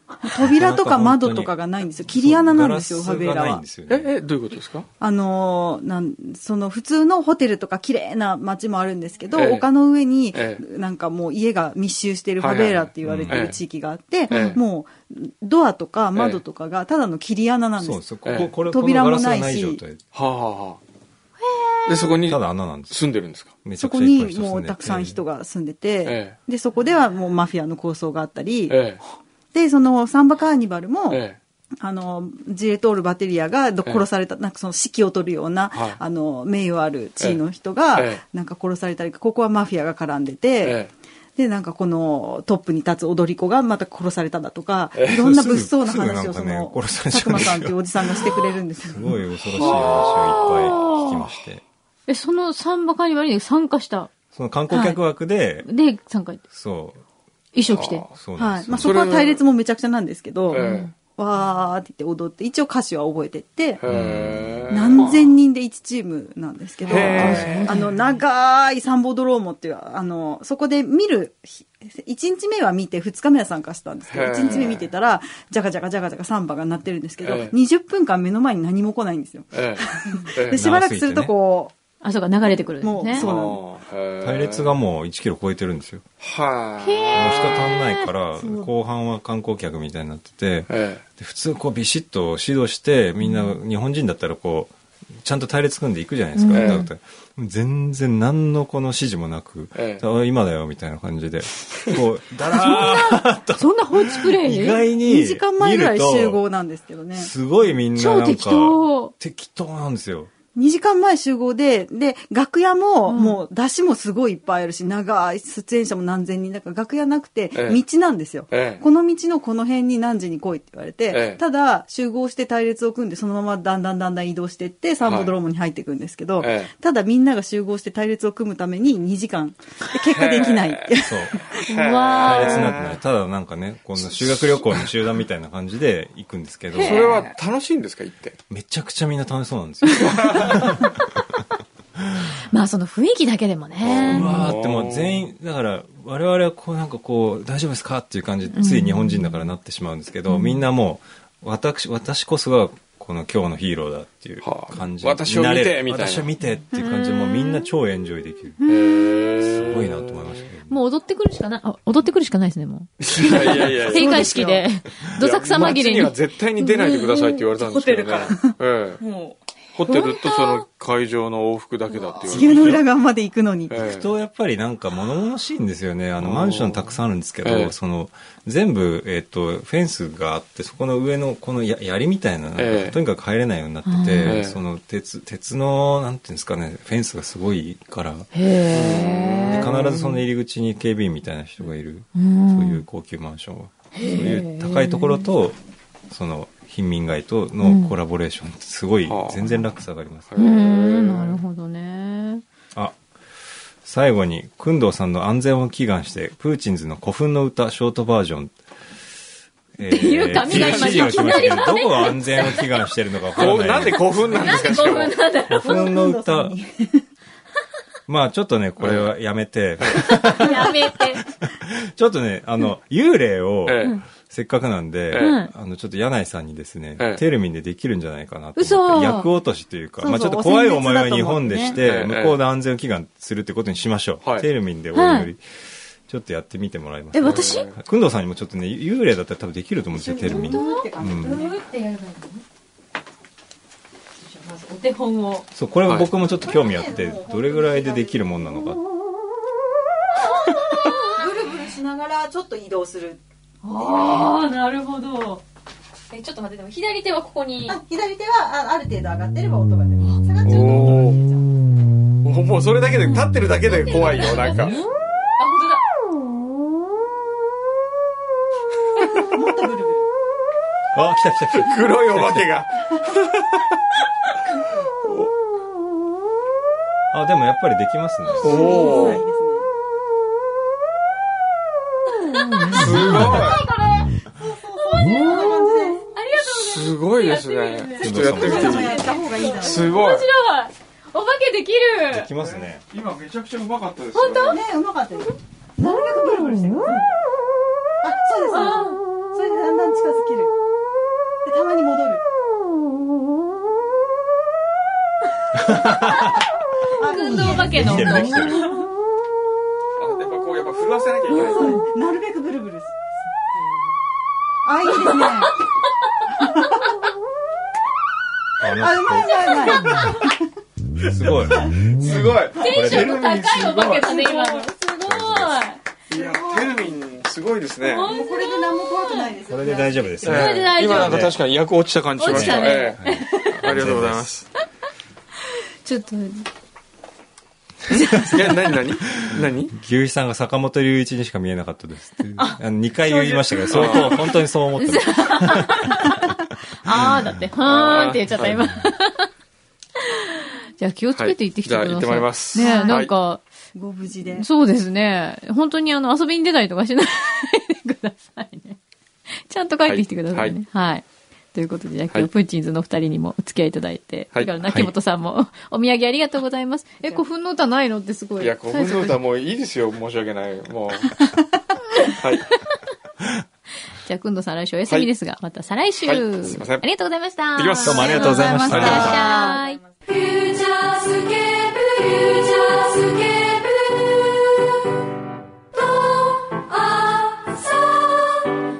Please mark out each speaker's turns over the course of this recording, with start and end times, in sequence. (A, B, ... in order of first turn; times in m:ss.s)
0:00.2-0:03.6 A
0:00.4-0:04.1 B
0:03.9-0:04.9 C
0:05.0-0:19.8 A
0:09.3-0:09.7 C
0:10.3-0:10.6 C
0:12.4-0:13.6 C
0:13.0-0:13.5 B
0:14.3-0:14.6 D
0:14.3-0:14.6 C
0:16.1-0:16.4 C
0:17.8-0:20.0 B
0:18.2-0:18.5 C
0:20.1-0:20.8 C
0:21.4-0:21.9 D
0:21.8-0:23.5 C
0:22.2-0:23.0 B
0:23.6-0:25.2 B
0:23.8-0:29.0 A
0:26.0-0:26.4 C
0:28.7-0:29.0 C
0:29.5-0:31.2 A
0:31.1-0:31.4 C
0:31.8-0:49.9 A
0:35.7-0:36.0 C
0:37.9-0:38.2 C
0:40.6-0:40.9 C
0:44.9-0:45.2 C
0:45.1-0:51.6 B
0:49.5-0:50.5 C
0:49.6-0:51.2 D
0:52.1-0:54.1 D
0:54.3-0:55.7 B
0:54.7-0:55.0 A
0:55.6-0:56.4 D
0:56.5-0:57.0 B
0:57.5-0:58.0 D
0:57.7-0:58.1 C
0:58.1-0:59.0 B
0:58.4-1:03.8 A
0:58.8-0:59.4 C
1:00.5-1:00.9 C
1:00.5-1:00.9 D
1:03.8-1:05.3 C
1:03.9-1:04.6 B
1:04.7-1:21.7 A
1:06.8-1:08.0 D
1:06.9-1:07.8 C
1:14.1-1:14.9 C
1:17.2-1:17.6 C
1:19.5-1:20.7 C
1:20.5-1:21.3 B
1:22.0-1:23.3 D
1:22.8-1:23.6 A
1:23.1-1:24.7 C
1:24.2-1:26.0 B
1:26.2-1:27.7 C
1:26.8-1:28.7 D
1:27.1-1:46.4 B
1:30.7-1:31.0 C
1:33.2-1:33.5 D
1:36.3-1:36.9 D
1:36.5-1:36.9 C
1:39.8-1:40.0 C
1:42.5-1:44.9 D
1:45.0-1:47.3 A
1:47.1-1:50.3 B
1:47.9-1:49.1 D
1:50.5-2:11.8 A
1:53.1-1:53.4 D
1:57.5-1:57.8 C
1:58.5-1:58.8 C
2:01.1-2:01.4 C
2:05.0-2:05.3 C
2:06.4-2:06.7 C
2:10.1-2:10.9 C
2:11.0-2:11.5 B
2:11.6-2:13.0 C
2:11.7-2:12.8 D
2:12.2-2:17.2 B
2:14.0-2:14.9 C
2:16.7-2:17.3 D
2:16.7-2:18.4 C
2:18.5-2:21.4 B
2:20.0-2:20.6 C
2:22.0-2:22.3 B
2:22.5-2:24.5 D
2:23.8-2:25.2 C
2:23.9-2:38.6 B
2:28.5-2:29.4 D
2:30.3-2:30.6 D
2:34.4-2:36.3 C
2:36.7-2:37.7 D
2:38.6-2:39.3 D
2:38.6-2:40.2 C
2:39.4-2:40.8 B
2:40.7-2:47.1 D
2:43.0-2:49.0 C
2:43.9-2:44.6 A
2:47.5-2:49.4 E
2:49.7-2:52.8 C
2:52.3-2:53.8 A
2:52.3-2:52.8 B
2:53.7-2:54.1 C
2:53.8-3:08.3 B
2:56.2-2:57.7 C
3:02.6-3:03.0 C
3:03.8-3:04.4 D
3:04.2-3:04.6 C
3:08.3-3:10.2 D
3:08.7-3:09.8 C
3:09.4-3:15.6 B
3:12.1-3:12.8 D
3:13.9-3:15.3 D
3:16.1-3:20.3 B
3:17.6-3:17.9 D
3:19.0-3:19.6 C
3:20.3-3:21.4 C
3:20.4-3:22.4 D
3:23.8-3:28.6 B
3:29.7-3:34.6 B
3:29.9-3:32.7 D
3:30.4-3:31.2 C
3:33.4-3:35.2 C
3:33.4-3:35.9 D
3:35.5-3:36.6 B
3:35.6-3:37.0 A
3:38.1-4:01.4 B
3:38.8-3:39.1 C
3:39.8-3:40.1 C
3:40.3-3:41.2 D
3:43.6-3:43.9 C
3:43.8-3:44.0 D
3:45.1-3:45.4 C
3:45.1-3:45.5 D
3:48.6-3:49.3 D
3:50.0-3:51.8 A
3:51.8-3:52.4 C
3:54.2-3:54.5 C
3:54.9-3:55.3 D
3:57.1-3:57.7 D
3:57.2-3:57.8 C
3:59.9-4:01.6 A
4:00.2-4:02.4 D
4:04.3-4:05.5 D
4:05.5-4:08.8 B
4:05.8-4:06.1 C
4:06.2-4:08.3 A
4:10.4-4:11.2 D
4:11.1-4:13.2 A
4:13.6-4:15.4 D
4:13.8-4:14.3 A
4:16.1-4:17.8 D
4:17.7-4:21.4 A
4:20.0-4:20.8 D
4:20.4-4:21.2 C
4:22.2-4:24.8 C
4:23.6-4:25.8 D
4:29.1-4:30.1 A
4:30.9-4:32.5 B
4:31.5-4:33.8 C
4:35.0-4:35.3 C
4:37.1-4:38.7 B
4:38.4-4:39.2 C
4:38.4-4:39.7 A
4:38.4-4:39.2 D
4:42.3-4:44.2 D
4:42.7-4:43.6 C
4:42.8-4:43.5 B
4:44.4-4:46.0 A
4:44.9-4:52.3 D
4:46.4-4:49.0 C
4:48.0-4:48.9 B
4:48.3-4:50.0 A
4:49.6-4:50.3 C
4:52.1-4:52.8 B
4:52.4-4:54.6 C
4:54.1-4:54.6 D
4:54.5-4:57.0 A
4:58.0-5:00.5 A
4:58.5-4:59.0 D
5:01.4-5:02.2 A
5:05.5-5:06.4 B
5:07.0-5:08.8 A
5:07.0-5:08.8 D
5:07.4-5:08.7 B
5:10.0-5:11.8 C
5:11.3-5:13.1 A
5:11.5-5:11.8 D
5:14.6-5:15.5 A
5:14.9-5:15.5 D
5:16.4-5:16.8 A
5:18.6-5:19.9 B
5:18.7-5:20.3 A
5:19.6-5:20.1 D
5:21.0-5:23.1 B
5:21.9-5:24.3 C
5:22.6-5:25.8 D
5:25.0-5:25.6 B
5:26.1-5:28.1 C
5:26.1-5:26.7 A
5:27.8-5:29.3 D
5:28.0-5:30.1 A
5:29.5-5:31.3 B
5:30.2-5:31.3 D
5:30.2-5:34.4 C
5:32.2-5:33.8 D
5:32.2-5:34.3 B
5:35.8-5:36.4 D
5:37.9-5:38.4 B
5:38.2-5:39.7 C
5:39.1-5:47.3 B
5:43.2-5:44.3 D
5:43.7-5:44.2 C
5:44.8-5:46.1 D
5:46.8-5:49.3 D
5:47.6-5:48.4 C
5:48.3-5:48.8 B
5:50.1-5:53.4 D
5:51.1-5:53.1 C
5:52.6-5:53.0 A
5:53.7-5:54.4 A
5:54.3-5:58.8 D
5:59.4-6:09.2 D
5:59.8-6:00.6 C
6:04.3-6:04.9 C
6:08.4-6:11.2 C
6:12.1-6:12.5 C
6:14.0-6:24.4 D
6:16.0-6:16.9 C
6:17.6-6:19.1 C
6:17.8-6:19.4 B
6:18.5-6:19.6 A
6:19.1-6:19.8 E
6:25.8-6:28.5 D